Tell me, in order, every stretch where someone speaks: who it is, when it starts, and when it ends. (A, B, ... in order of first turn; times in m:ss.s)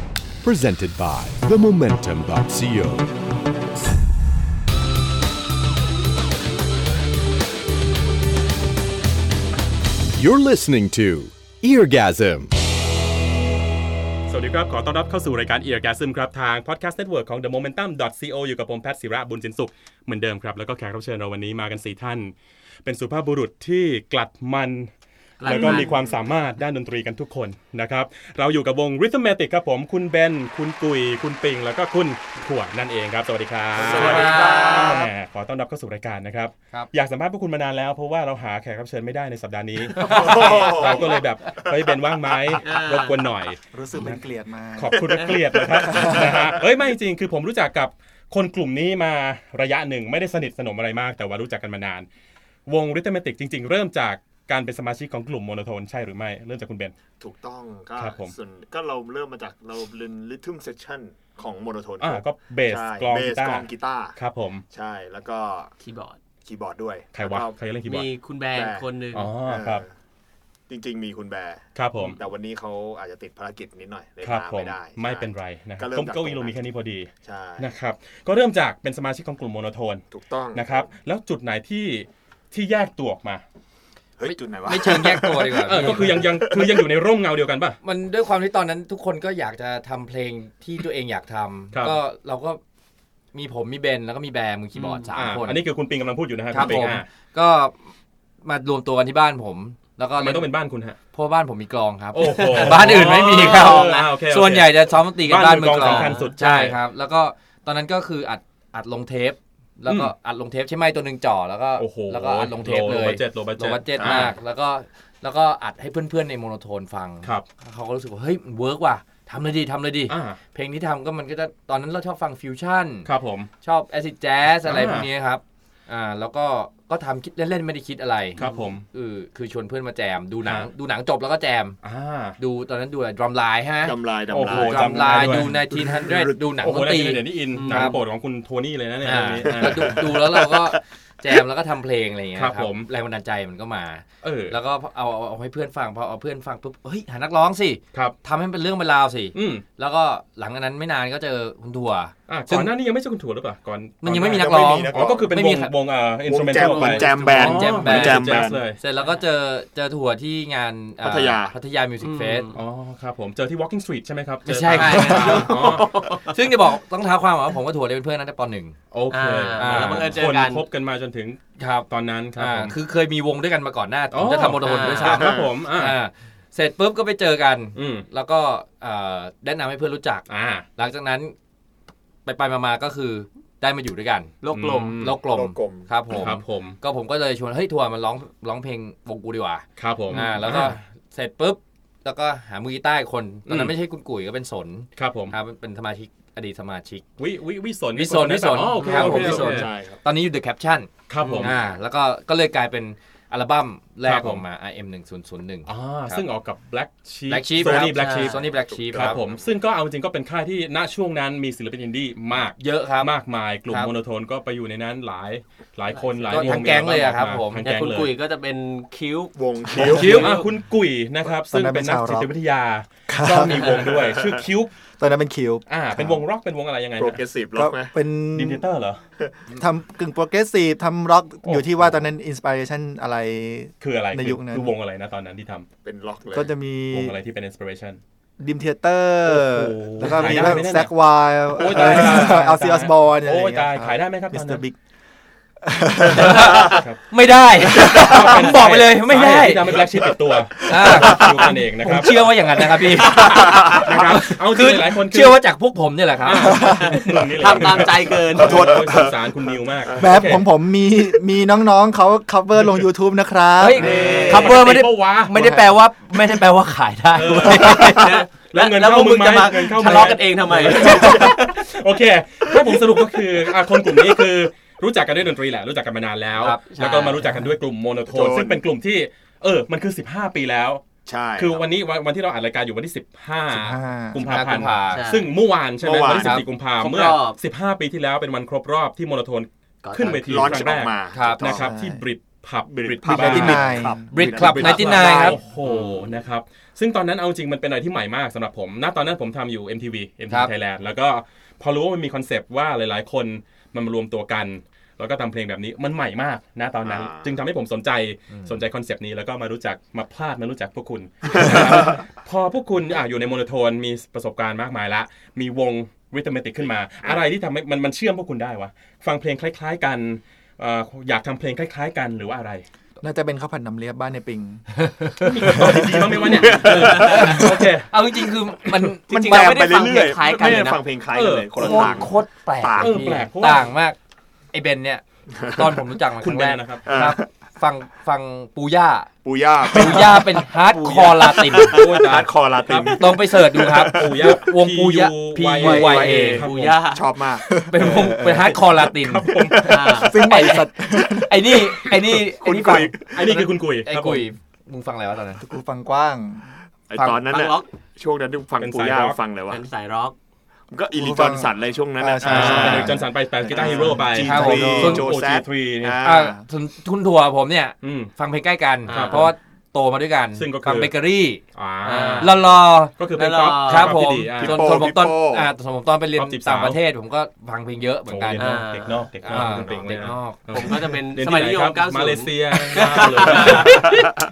0:00.4-0:03.1 A
0:10.2-0:12.5 A
0:14.3-0:24.9 B
0:25.4-0:26.0 C
0:25.4-0:44.2 B
0:33.8-0:34.7 D
0:33.8-0:35.0 E
0:34.0-0:35.0 C
0:39.9-0:42.6 D
0:40.1-0:40.9 E
0:42.6-0:43.3 C
0:43.7-0:45.1 F
0:44.8-0:52.1 B
0:45.0-0:46.5 D
0:45.9-0:46.5 F
0:52.7-0:56.9 B
0:57.2-1:04.2 D
0:58.0-0:58.3 B
1:02.0-1:04.6 B
1:04.7-1:05.7 D
1:05.8-1:06.2 C
1:06.4-1:07.6 D
1:07.1-1:08.1 B
1:07.9-1:09.3 C
1:08.5-1:08.9 D
1:09.1-1:09.8 B
1:09.4-1:09.9 D
1:10.7-1:16.6 D
1:11.8-1:12.2 B
1:14.2-1:23.4 B
1:17.2-1:17.7 D
1:20.1-1:20.9 D
1:24.2-1:26.9 D
1:24.2-1:26.2 E
1:25.6-1:27.8 B
1:27.8-1:32.6 E
1:31.7-1:32.0 B
1:33.3-1:35.6 E
1:34.8-1:35.1 C
1:35.1-1:37.1 B
1:36.5-1:37.8 E
1:38.4-1:40.5 E
1:40.2-1:41.0 B
1:41.1-2:03.1 E
1:42.1-1:46.8 B
1:42.3-1:44.0 C
1:45.9-1:46.1 C
1:49.9-1:50.1 B
1:51.8-1:54.3 B
1:53.9-1:54.3 D
2:00.1-2:00.4 B
2:03.0-2:03.5 B
2:03.6-2:11.8 E
2:04.6-2:05.1 B
2:08.4-2:08.8 B
2:08.4-2:08.7 C
2:10.4-2:10.7 B
2:11.8-2:12.4 B
2:12.4-2:18.0 E
2:13.8-2:16.5 D
2:14.3-2:15.6 B
2:16.6-2:20.3 B
2:17.5-2:18.0 C
2:19.0-2:32.7 E
2:19.4-2:20.8 D
2:22.3-2:22.9 B
2:24.2-2:24.6 B
2:29.3-2:29.6 B
2:32.3-2:38.8 B
2:34.0-2:35.7 E
2:34.2-2:35.3 D
2:36.2-2:38.6 D
2:36.6-2:42.5 E
2:41.0-2:41.6 D
2:42.0-2:42.6 C
2:42.5-2:46.1 B
2:44.5-2:48.8 E
2:44.7-2:46.4 C
2:45.3-2:46.0 D
2:48.9-2:52.8 B
2:49.1-2:50.7 C
2:49.6-2:50.2 E
2:51.6-3:01.3 E
2:54.1-2:56.0 B
2:54.6-2:55.3 C
2:55.0-2:55.5 D
2:57.8-2:58.1 B
3:00.3-3:00.7 B
3:02.2-3:04.3 E
3:04.4-3:05.0 C
3:04.5-3:05.2 B
3:04.9-3:17.0 E
3:05.1-3:05.9 D
3:06.1-3:06.8 B
3:09.8-3:10.8 B
3:13.5-3:13.7 B
3:15.0-3:15.4 B
3:17.2-3:19.7 B
3:17.9-3:26.2 E
3:18.8-3:20.0 D
3:21.1-3:21.6 B
3:21.2-3:21.5 C
3:24.0-3:24.4 B
3:25.7-3:38.1 B
3:27.3-3:29.2 E
3:27.7-3:28.3 C
3:28.6-3:29.6 D
3:32.6-3:33.1 E
3:33.7-3:33.9 E
3:35.9-3:36.4 C
3:36.3-3:37.7 E
3:37.6-3:40.4 C
3:39.3-3:40.4 D
3:39.8-3:40.4 E
3:39.8-3:44.7 B
3:41.4-3:42.3 F
3:43.1-3:43.9 F
3:43.6-3:44.4 D
3:45.0-3:46.2 F
3:45.7-3:47.2 B
3:47.0-3:47.9 D
3:47.5-3:48.7 F
3:48.3-3:49.0 B
3:49.5-3:54.7 F
3:51.4-3:52.1 B
3:53.8-3:55.7 B
3:55.8-3:56.5 D
3:56.3-3:57.2 F
3:56.9-3:58.0 B
3:58.4-4:04.8 F
3:59.2-4:00.9 B
4:01.5-4:04.6 B
4:05.6-4:06.6 F
4:06.1-4:07.0 B
4:06.1-4:09.8 E
4:07.8-4:12.2 B
4:10.7-4:16.6 E
4:12.9-4:15.4 B
4:13.1-4:13.9 D
4:16.2-4:20.4 B
4:16.5-4:16.9 F
4:16.6-4:18.8 C
4:18.3-4:20.1 D
4:20.0-4:24.2 F
4:23.6-4:28.1 E
4:23.7-4:25.5 B
4:23.9-4:24.5 D
4:24.2-4:24.7 C
4:25.3-4:25.6 F
4:27.1-4:40.8 B
4:27.7-4:31.5 C
4:29.8-4:30.1 E
4:32.4-4:33.1 D
4:36.4-4:37.1 E
4:36.7-4:37.2 C
4:38.1-4:38.6 D
4:41.0-4:41.7 D
4:41.4-5:22.6 B
4:43.5-4:44.2 F
4:44.2-4:45.0 E
4:44.9-4:45.3 C
4:45.8-4:46.4 D
4:46.1-4:46.4 E
4:46.8-4:47.4 C
4:49.8-4:50.5 C
4:50.0-4:51.8 D
4:51.1-4:51.4 E
4:51.4-4:52.0 F
4:52.6-4:55.4 D
4:53.1-4:54.1 F
4:54.1-4:55.4 E
5:06.8-5:07.3 D
5:08.3-5:08.6 E
5:17.0-5:17.2 D
5:23.0-5:26.3 F
5:25.0-5:25.7 E
5:25.2-5:27.9 B
5:26.2-5:27.5 D
5:26.3-5:29.6 E
5:29.1-5:33.1 D
5:29.1-5:30.8 C
5:31.1-5:32.0 B
5:31.5-5:34.0 E
5:32.8-5:33.7 B
5:34.5-5:39.1 E
5:35.4-5:35.8 D
5:36.2-5:36.8 B
5:36.8-5:37.3 D
5:39.2-5:44.4 D
5:39.7-5:41.8 E
5:41.6-5:43.0 B
5:42.7-5:46.5 E
5:43.8-5:46.8 B
5:45.6-5:47.5 D
5:46.1-5:47.0 C
5:47.4-5:48.6 F
5:47.7-5:49.3 E
5:48.5-5:50.1 B
5:49.3-5:52.2 F
5:49.6-5:50.2 C
5:50.1-5:53.0 E
5:52.3-5:53.5 D
5:53.1-5:54.3 B
5:53.8-5:55.4 E
5:55.4-5:56.5 F
5:56.9-5:59.6 D
5:56.9-5:57.2 E
5:57.3-5:57.7 C
5:58.6-5:59.2 B
5:59.5-6:00.2 C
6:00.7-6:06.4 D
6:00.9-6:05.1 F
6:02.3-6:02.8 E
6:02.3-6:06.0 B
6:04.1-6:05.1 E
6:06.0-6:11.4 E
6:07.8-6:08.1 B
6:08.9-6:09.3 C
6:08.9-6:09.3 B
6:10.3-6:10.9 B
6:11.5-6:14.9 B
6:11.8-6:12.4 C
6:12.2-6:18.6 E
6:13.1-6:14.0 C
6:14.4-6:15.5 D
6:16.2-6:16.8 B
6:18.1-6:24.1 B
6:18.4-6:19.1 C
6:19.2-6:19.9 D
6:19.3-6:20.5 E
6:20.5-6:23.8 C
6:23.3-6:24.0 D
6:23.4-6:23.8 E